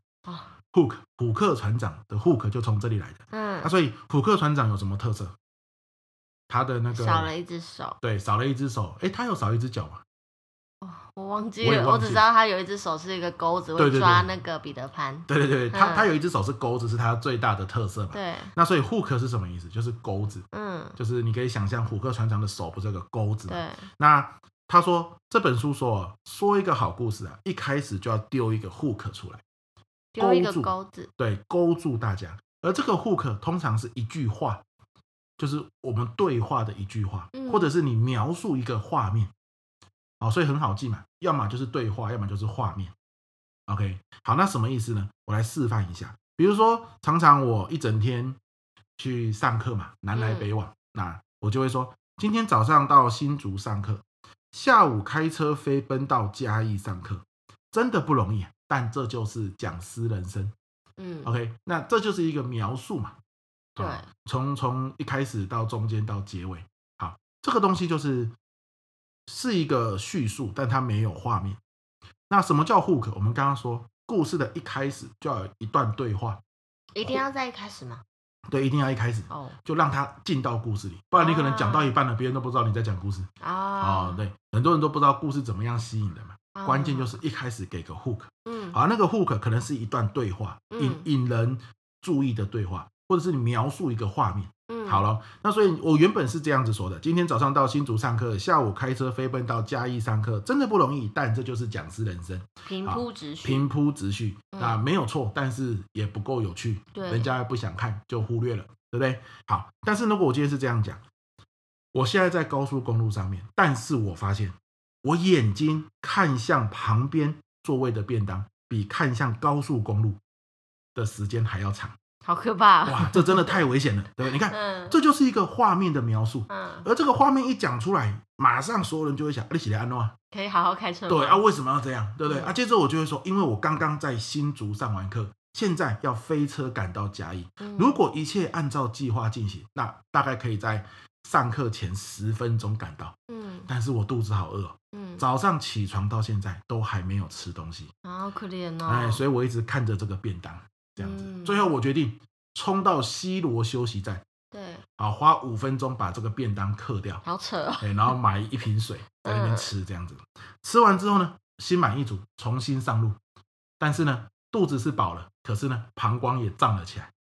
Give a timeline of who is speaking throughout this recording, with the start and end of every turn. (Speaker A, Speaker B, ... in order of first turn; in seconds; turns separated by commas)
Speaker A: 0.7-5.3, Speaker B: 3.3-3.7, Speaker A: 6.5-7.3, Speaker B: 6.9-8.0, Speaker A: 8.0-10.0, Speaker B: 10.8-16.1, Speaker A: 11.6-12.2, Speaker A: 13.8-14.3, Speaker A: 15.3-20.4, Speaker B: 18.1-18.5, Speaker B: 20.5-21.0, Speaker A: 21.0-29.4, Speaker B: 23.5-23.9, Speaker B: 30.1-31.1, Speaker A: 30.2-34.6, Speaker A: 35.4-39.3, Speaker B: 37.3-37.7, Speaker A: 40.2-42.9, Speaker A: 43.7-48.4, Speaker A: 49.0-60.5, Speaker B: 50.1-50.5, Speaker B: 61.0-61.3, Speaker A: 61.2-63.1, Speaker A: 63.8-68.3, Speaker B: 63.8-64.0, Speaker A: 69.3-71.6, Speaker A: 72.3-76.4, Speaker B: 76.9-78.0, Speaker A: 78.5-83.3, Speaker B: 79.3-79.6, Speaker B: 81.1-81.9, Speaker B: 83.4-84.2, Speaker A: 83.8-111.0, Speaker B: 86.5-87.2, Speaker B: 88.5-88.8, Speaker B: 90.7-91.1, Speaker B: 94.7-95.0, Speaker B: 102.7-103.6, Speaker B: 104.5-104.8, Speaker B: 106.9-107.3, Speaker A: 111.9-120.2, Speaker A: 120.9-122.0, Speaker B: 122.2-123.6, Speaker A: 122.8-130.1, Speaker B: 124.5-125.0, Speaker B: 126.5-126.9, Speaker B: 130.3-131.4, Speaker A: 131.1-143.1, Speaker B: 132.2-132.5, Speaker B: 137.6-138.0, Speaker B: 143.3-143.7, Speaker A: 143.7-147.9, Speaker B: 144.9-145.2, Speaker B: 148.0-149.2, Speaker A: 148.8-154.2, Speaker B: 151.0-151.6, Speaker B: 154.5-154.8, Speaker A: 155.0-157.2, Speaker B: 157.2-158.1, Speaker A: 157.8-163.2, Speaker B: 159.2-159.7, Speaker A: 163.8-167.1